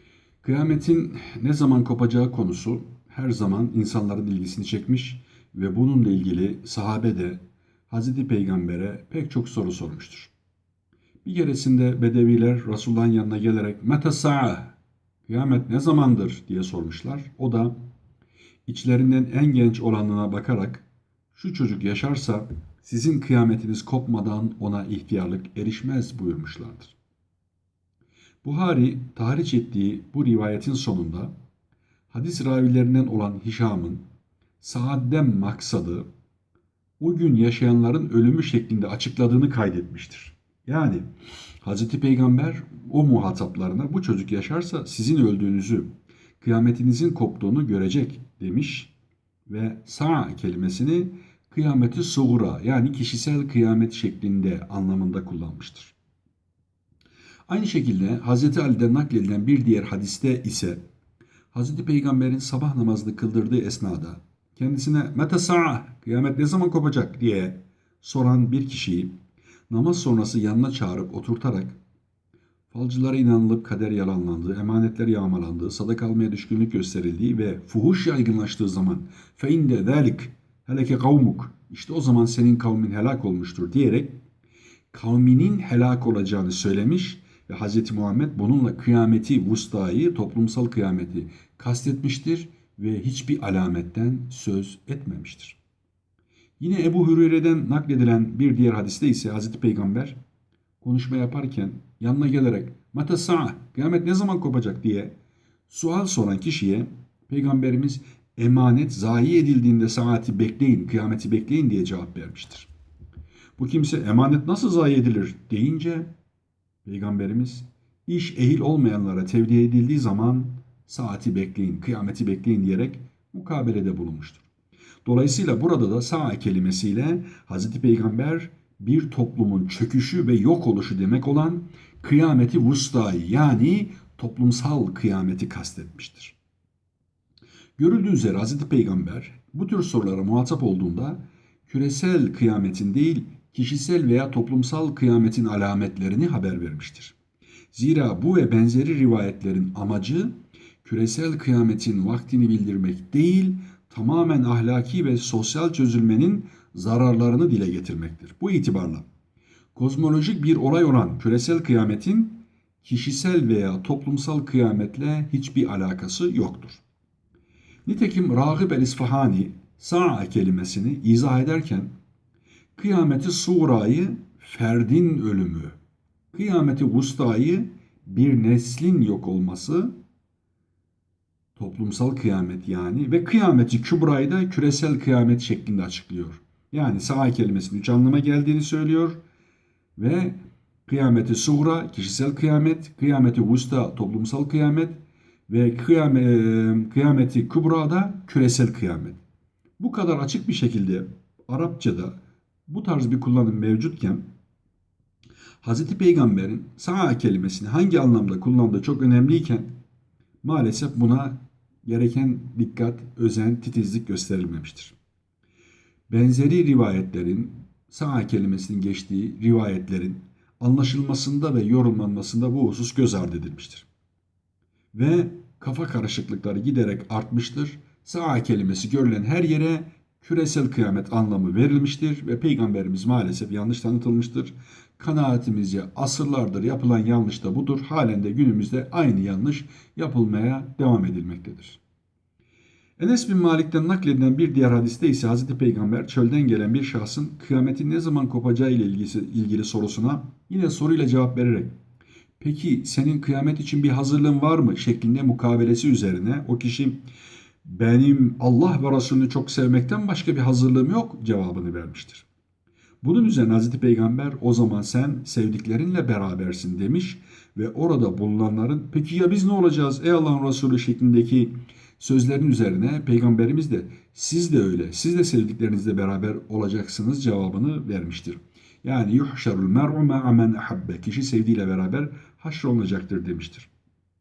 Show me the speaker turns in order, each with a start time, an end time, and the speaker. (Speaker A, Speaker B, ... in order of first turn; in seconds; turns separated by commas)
Speaker A: 0.4-10.3, Speaker A: 11.2-14.8, Speaker A: 15.3-17.8, Speaker A: 18.7-26.9, Speaker A: 28.4-31.3, Speaker A: 32.1-34.0, Speaker A: 34.6-36.0, Speaker A: 37.0-41.1, Speaker A: 41.6-45.9, Speaker A: 46.4-48.9, Speaker A: 49.5-56.0, Speaker A: 57.5-60.8, Speaker A: 61.5-69.2, Speaker A: 69.7-71.8, Speaker A: 72.7-84.2, Speaker A: 84.9-95.6, Speaker A: 96.6-100.2, Speaker A: 100.8-105.2, Speaker A: 105.7-112.7, Speaker A: 113.6-116.1, Speaker A: 116.8-124.5, Speaker A: 125.0-136.4, Speaker A: 137.8-147.2, Speaker A: 147.7-159.1, Speaker A: 159.8-166.8, Speaker A: 167.9-171.9, Speaker A: 172.8-175.8, Speaker A: 176.3-179.9, Speaker A: 181.6-189.2, Speaker A: 190.0-195.0, Speaker A: 195.5-199.2, Speaker A: 199.8-204.2, Speaker A: 205.6-209.7, Speaker A: 210.4-215.0, Speaker A: 216.1-223.9, Speaker A: 224.9-241.8, Speaker A: 243.0-251.7, Speaker A: 252.4-257.0, Speaker A: 257.6-262.3, Speaker A: 263.0-283.7